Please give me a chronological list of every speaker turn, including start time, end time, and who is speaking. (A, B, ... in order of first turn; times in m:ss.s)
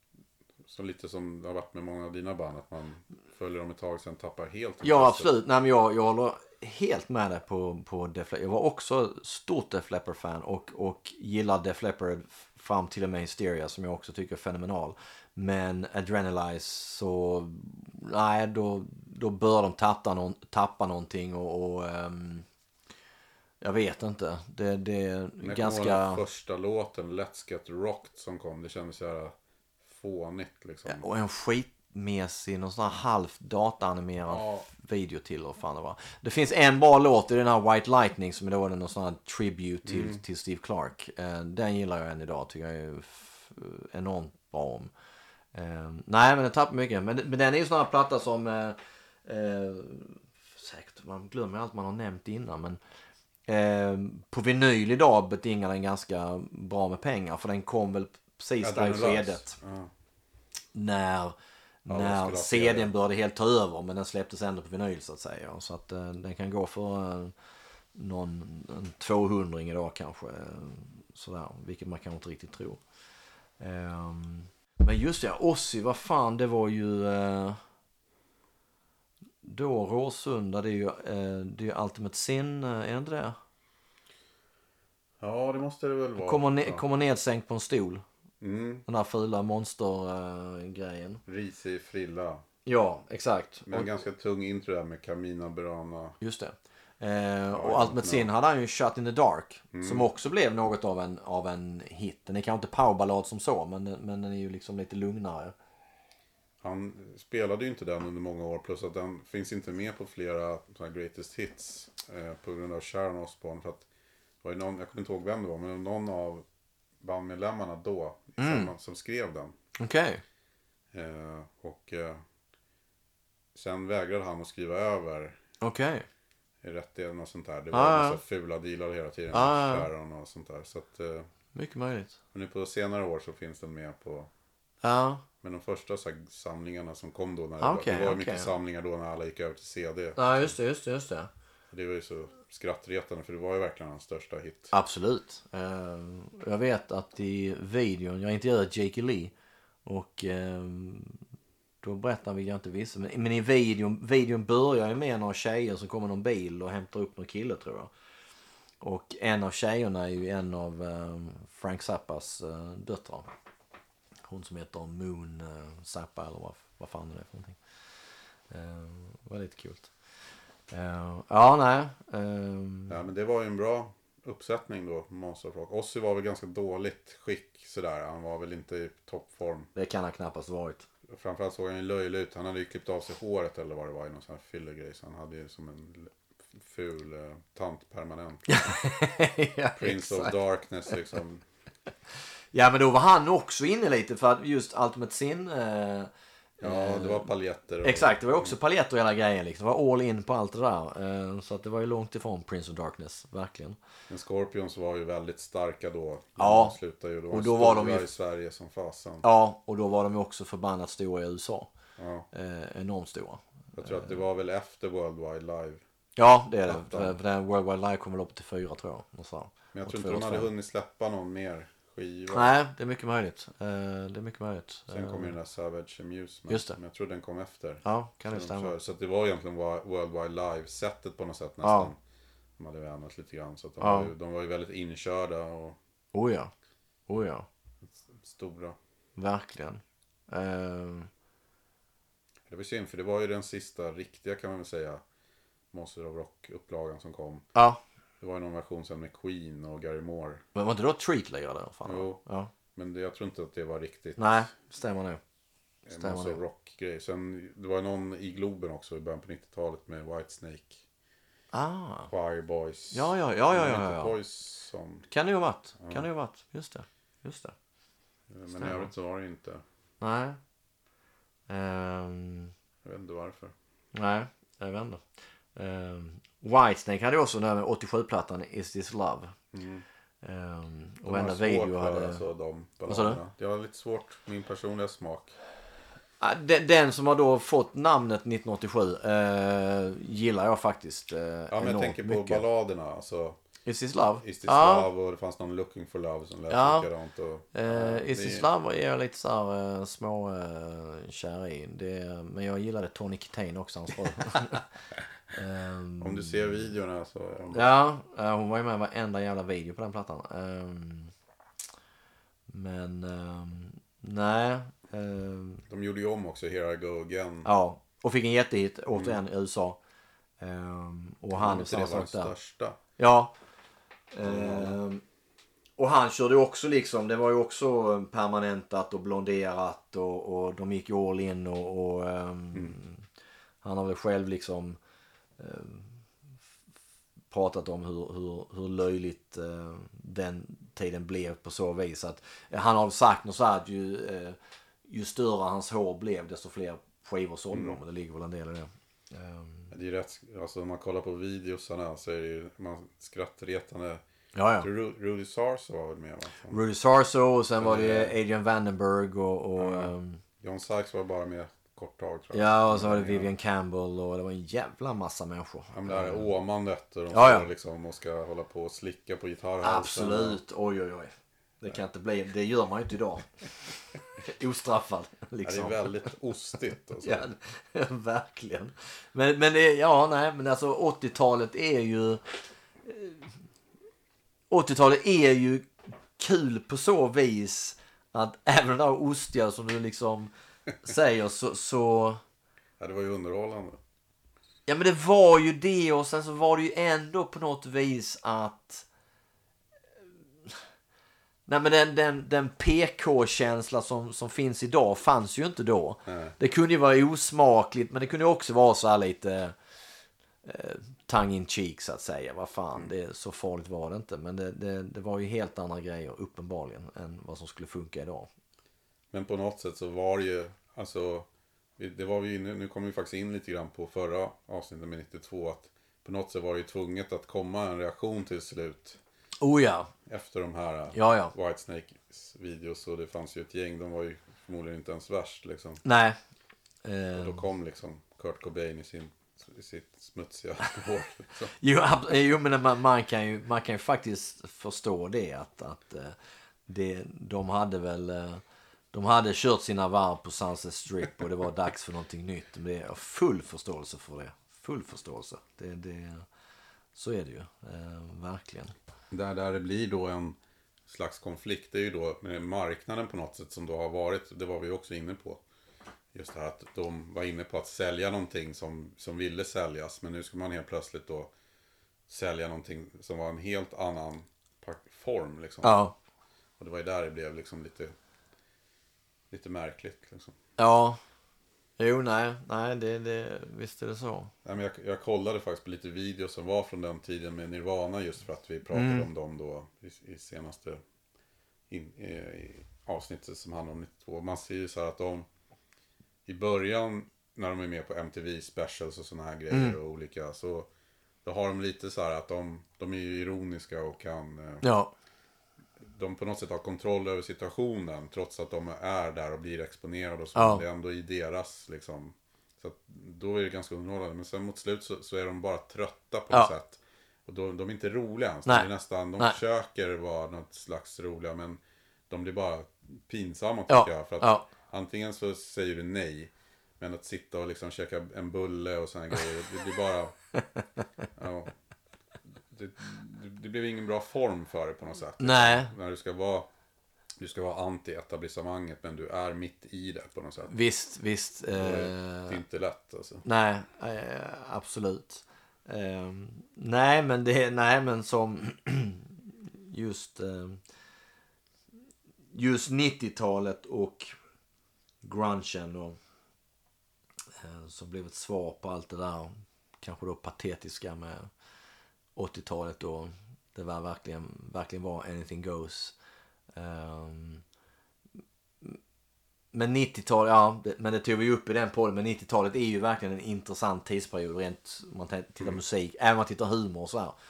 0:00.6-0:05.3 A
0:04.8-0:22.4 B
0:23.6-0:26.2 B
0:25.4-0:31.0 A
0:30.9-0:44.9 B
0:34.2-0:34.7 A
0:39.8-0:40.2 A
0:45.5-0:52.8 B
0:53.5-0:59.6 B
0:58.6-0:59.9 A
1:00.7-1:07.3 B
1:01.9-1:02.9 A
1:07.9-1:12.8 B
1:13.6-1:17.6 B
1:19.4-1:23.4 B
1:25.2-1:26.8 A
1:26.2-1:28.0 B
1:28.4-1:28.8 A
1:28.9-1:31.2 B
1:31.3-1:32.4 A
1:32.6-1:33.9 B
1:33.7-1:36.2 A
1:36.2-1:45.5 B
1:37.5-1:38.3 A
1:39.7-1:40.1 A
1:46.6-1:53.9 A
1:54.4-1:56.4 A
1:57.0-1:59.5 A
1:58.4-1:58.7 B
1:59.8-2:00.2 B
2:00.9-2:02.2 A
2:03.5-2:05.4 A
2:05.6-2:06.0 B
2:06.6-2:11.3 A
2:07.7-2:08.2 B
2:09.3-2:09.9 B
2:11.5-2:12.2 B
2:12.3-2:14.3 A
2:14.8-2:15.2 B
2:15.4-2:20.5 A
2:17.6-2:18.5 B
2:20.2-2:21.3 B
2:21.7-2:24.7 A
2:24.7-2:29.3 B
2:29.8-2:31.2 B
2:31.8-2:37.9 B
2:38.8-2:43.3 B
2:44.3-2:47.6 B
2:48.5-2:49.9 B
2:50.7-2:53.0 B
2:52.9-2:59.7 A
2:59.7-3:00.8 B
3:01.1-3:08.6 A
3:08.5-3:10.4 B
3:09.8-3:11.4 A
3:12.5-3:17.3 B
3:16.6-3:18.5 A
3:17.8-3:23.8 B
3:24.1-3:29.2 A
3:26.4-3:26.8 B
3:27.3-3:28.1 B
3:29.2-3:31.7 B
3:32.0-3:32.3 A
3:32.3-3:34.1 B
3:33.8-3:35.8 A
3:36.2-3:40.5 B
3:36.7-3:37.2 A
3:39.7-3:42.5 A
3:42.3-3:45.3 B
3:44.9-3:52.0 A
3:46.5-3:46.8 B
3:47.8-3:48.7 B
3:51.6-3:51.9 B
3:52.6-3:55.8 A
3:53.8-3:54.1 B
3:56.1-3:56.5 B
3:57.1-3:57.5 B
3:57.9-3:58.8 A
3:59.2-4:01.1 B
4:02.5-4:05.0 A
4:05.7-4:07.5 A
4:07.5-4:07.8 B
4:08.2-4:10.4 A
4:10.5-4:12.5 B
4:11.8-4:12.2 A
4:12.7-4:14.5 A
4:14.2-4:15.2 B
4:15.8-4:20.8 A
4:15.9-4:16.4 B
4:21.5-4:22.1 B
4:22.1-4:25.1 A
4:22.9-4:24.1 B
4:25.1-4:27.6 B
4:25.8-4:26.1 A
4:28.3-4:29.6 A
4:28.5-4:28.9 B
4:30.0-4:30.4 B
4:31.5-4:32.5 B
4:32.8-4:33.5 A
4:33.9-4:39.3 B
4:39.5-4:39.8 A
4:40.2-4:42.2 B
4:41.0-4:45.4 A
4:42.9-4:43.2 B
4:46.2-4:52.4 B
4:51.5-4:53.4 A
4:53.6-4:54.9 B
4:54.2-4:58.5 A
4:56.5-4:56.9 B
4:57.5-5:04.7 B
5:05.3-5:06.6 B
5:06.0-5:07.7 A
5:07.5-5:11.1 B
5:12.5-5:15.6 B
5:15.7-5:17.5 A
5:17.4-5:19.8 B
5:18.9-5:19.2 A
5:20.4-5:22.3 B
5:21.3-5:22.8 A
5:23.0-5:23.3 B
5:24.1-5:25.0 B
5:24.2-5:24.8 A
5:25.8-5:33.0 B
5:33.6-5:34.8 B
5:35.4-5:35.9 B
5:37.3-5:49.7 B
5:47.5-5:47.8 A
5:49.7-5:54.0 A
5:54.3-5:54.7 B
5:54.6-5:56.6 A
5:56.5-6:00.2 B
5:57.6-5:58.2 A
5:59.6-6:03.3 A
6:02.3-6:06.3 B
6:05.7-6:10.4 A
6:07.1-6:07.5 B
6:09.6-6:13.3 B
6:14.2-6:16.0 B
6:15.4-6:17.3 A
6:17.0-6:23.3 B
6:24.5-6:30.3 B
6:30.8-6:32.2 B
6:32.8-6:33.8 A
6:34.7-6:38.8 B
6:41.5-6:49.5 B
6:46.0-6:46.3 A
6:50.4-6:58.3 B
6:59.1-7:09.0 A
7:09.4-7:09.9 B
7:10.1-7:15.8 A
7:10.9-7:11.3 B
7:15.8-7:16.2 B
7:16.8-7:17.4 B
7:17.1-7:21.5 A
7:21.6-7:36.2 B
7:36.9-7:38.7 B
7:39.1-7:45.4 A
7:46.1-7:51.3 A
7:52.1-7:55.8 A
7:55.6-7:55.9 B
7:56.6-7:57.9 A
7:59.3-8:00.4 A
8:00.6-8:01.0 B
8:01.8-8:04.3 B
8:04.4-8:10.8 A
8:08.7-8:09.1 B
8:11.7-8:15.3 A
8:16.2-8:20.7 A
8:19.5-8:19.8 B
8:21.2-8:24.6 A
8:24.6-8:24.9 B
8:25.8-8:50.1 A
8:30.3-8:30.6 B
8:38.4-8:39.4 B
8:43.7-8:44.5 B
8:51.2-8:51.5 A
8:52.5-8:56.5 A
8:55.2-8:55.7 B
8:57.2-9:00.6 A
9:00.5-9:02.4 B
9:01.5-9:03.2 A
9:03.2-9:09.1 B
9:09.7-9:10.6 B
9:12.3-9:14.2 B
9:15.0-9:16.0 B
9:17.4-9:21.3 B
9:22.1-9:25.9 B
9:26.5-9:27.4 B
9:29.5-9:37.2 B